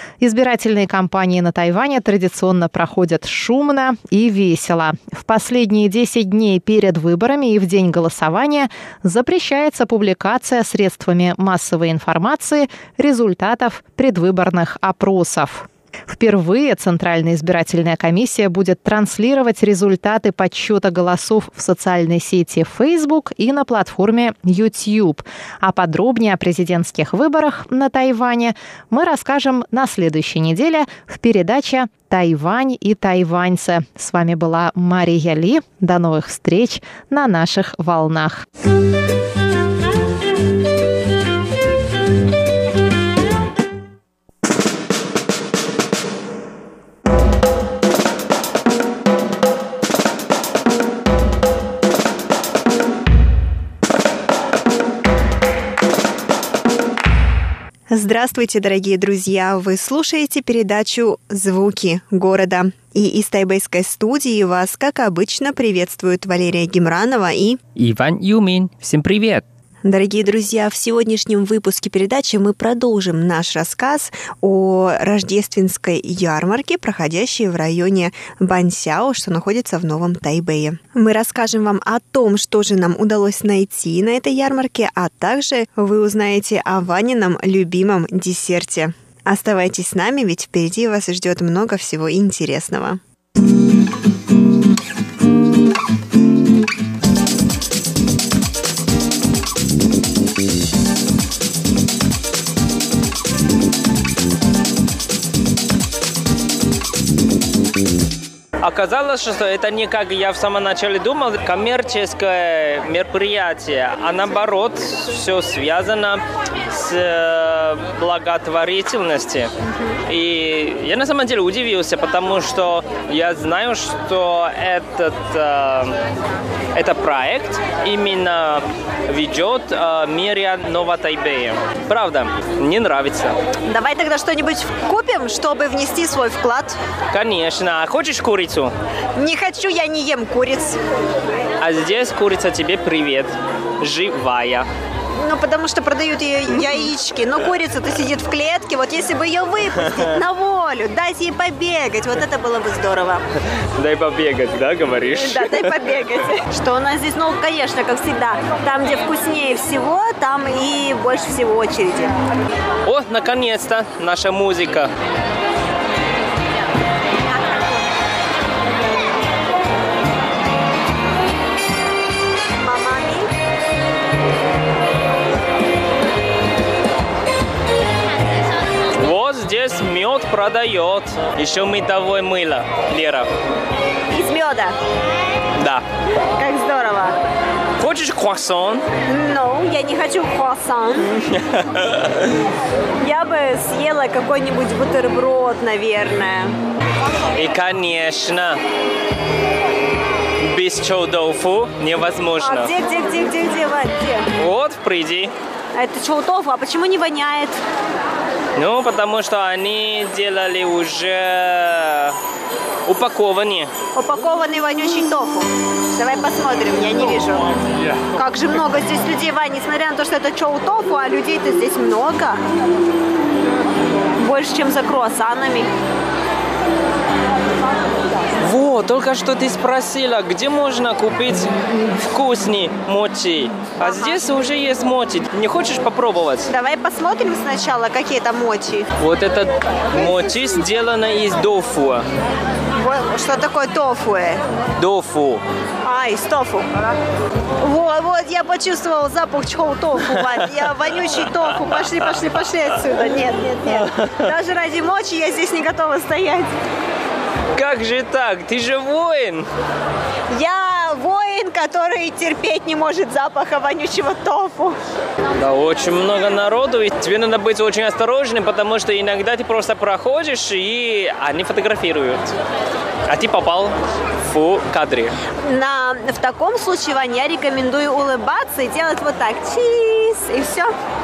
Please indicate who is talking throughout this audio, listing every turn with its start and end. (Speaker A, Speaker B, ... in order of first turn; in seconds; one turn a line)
Speaker A: 0.2-38.4
Speaker B: 57.9-67.6
Speaker B: 69.8-93.0
Speaker C: 108.6-119.5
Speaker C: 120.1-126.0
Speaker C: 126.7-133.4
Speaker D: 133.7-136.8
Speaker C: 137.1-138.7
Speaker D: 139.2-140.8
Speaker C: 141.6-144.7
Speaker D: 145.2-153.2
Speaker C: 153.8-155.6
Speaker D: 155.1-162.1
Speaker C: 162.8-164.9
Speaker D: 172.6-173.3
Speaker C: 178.9-183.3
Speaker D: 184.1-184.8
Speaker C: 185.6-185.8
Speaker D: 186.4-187.2
Speaker C: 187.8-188.9
Speaker D: 189.1-191.1
Speaker C: 191.3-192.1
Speaker D: 193.0-196.6
Speaker C: 197.4-198.6
Speaker C: 200.4-202.7
Speaker D: 202.4-204.3
Speaker C: 204.4-205.3
Speaker D: 205.7-207.6
Speaker C: 208.6-212.2
Speaker C: 212.9-213.7
Speaker D: 213.9-217.5
Speaker D: 218.1-222.4
Speaker D: 224.2-225.7
Speaker C: 228.4-236.5
Speaker D: 233.8-234.2
Speaker D: 236.5-238.9
Speaker C: 239.0-242.1
Speaker D: 242.8-244.4
Speaker C: 244.8-245.4
Speaker D: 245.8-246.7
Speaker D: 247.6-256.5
Speaker C: 257.6-259.5
Speaker D: 260.3-264.8
Speaker C: 265.4-272.3
Speaker C: 273.1-275.1
Speaker D: 275.4-280.7